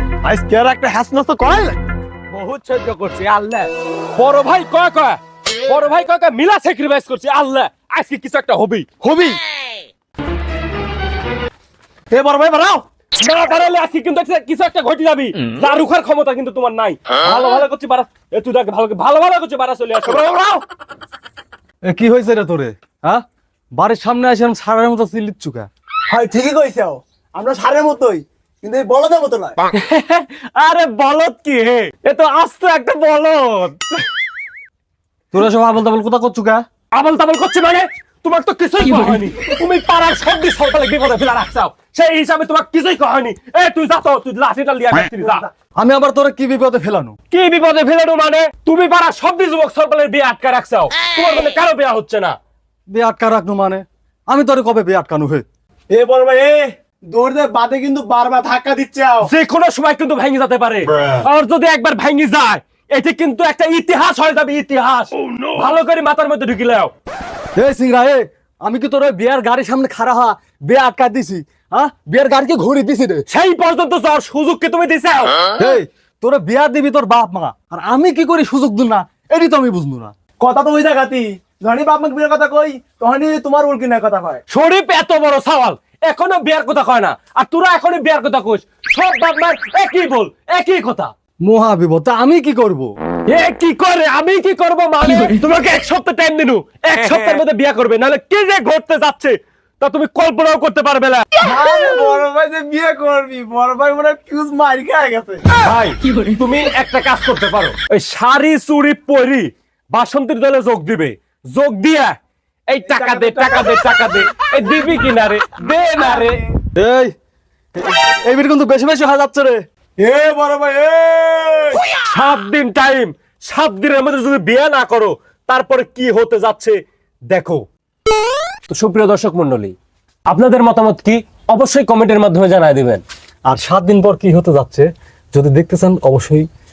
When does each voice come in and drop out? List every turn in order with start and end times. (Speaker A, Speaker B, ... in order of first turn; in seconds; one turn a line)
Speaker A: 0.2-1.8
Speaker B: 2.3-8.9
Speaker A: 9.0-9.4
Speaker C: 12.1-12.8
Speaker B: 13.2-20.6
Speaker A: 21.8-23.2
Speaker A: 23.7-25.7
Speaker C: 26.1-29.6
Speaker B: 29.7-34.0
Speaker A: 35.3-36.6
Speaker B: 36.9-45.5
Speaker A: 45.8-47.1
Speaker B: 47.3-52.4
Speaker A: 52.9-55.5
Speaker C: 55.9-59.3
Speaker B: 59.2-66.9
Speaker A: 67.5-73.2
Speaker B: 73.3-75.5
Speaker A: 75.5-80.1
Speaker C: 80.4-84.4
Speaker B: 84.5-91.1
Speaker A: 91.4-92.9
Speaker B: 93.3-101.3
Speaker C: 97.0-97.4
Speaker C: 101.4-105.4
Speaker B: 105.6-112.1
Speaker B: 112.7-116.4
Speaker C: 112.9-113.7
Speaker A: 116.7-117.1
Speaker A: 117.7-119.6
Speaker C: 120.0-121.8
Speaker B: 121.9-126.8
Speaker B: 127.3-127.6
Speaker B: 128.7-129.7
Speaker B: 130.3-133.0
Speaker A: 133.5-136.5